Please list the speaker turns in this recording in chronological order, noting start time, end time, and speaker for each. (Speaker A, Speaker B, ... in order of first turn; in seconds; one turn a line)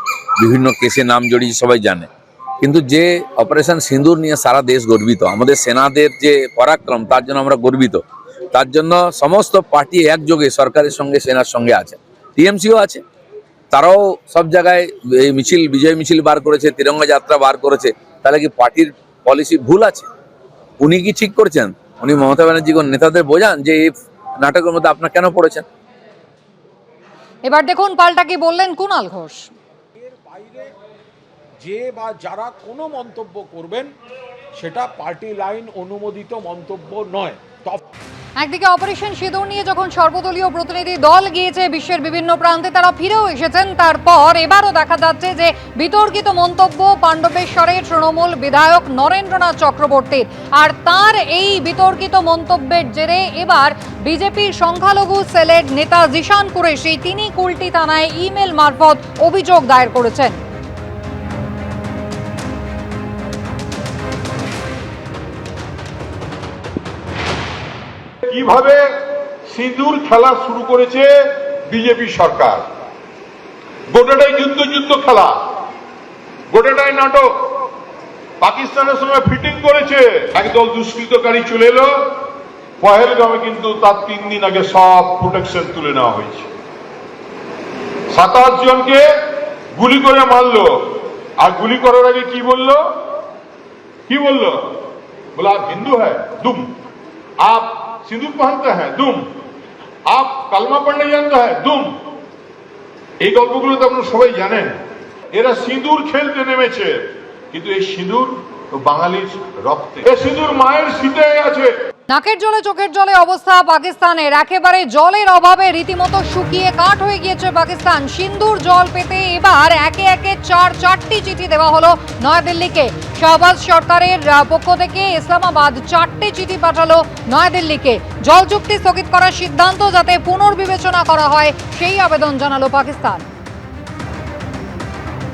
Speaker A: 0.4-2.1
Speaker A: 2.6-8.0
Speaker A: 8.5-13.0
Speaker A: 13.7-20.1
Speaker A: 20.8-25.6
Speaker B: 27.4-29.5
Speaker C: 30.0-30.7
Speaker C: 31.6-33.9
Speaker C: 34.6-37.8
Speaker B: 38.4-60.4
Speaker D: 68.2-72.7
Speaker D: 73.9-75.4
Speaker D: 76.5-77.5
Speaker D: 78.4-82.1
Speaker D: 82.8-86.5
Speaker D: 88.1-92.9
Speaker D: 94.1-94.8
Speaker D: 95.3-96.7
Speaker D: 97.4-99.3
Speaker D: 100.1-101.9
Speaker D: 103.2-104.8
Speaker D: 105.3-111.7
Speaker B: 112.1-133.2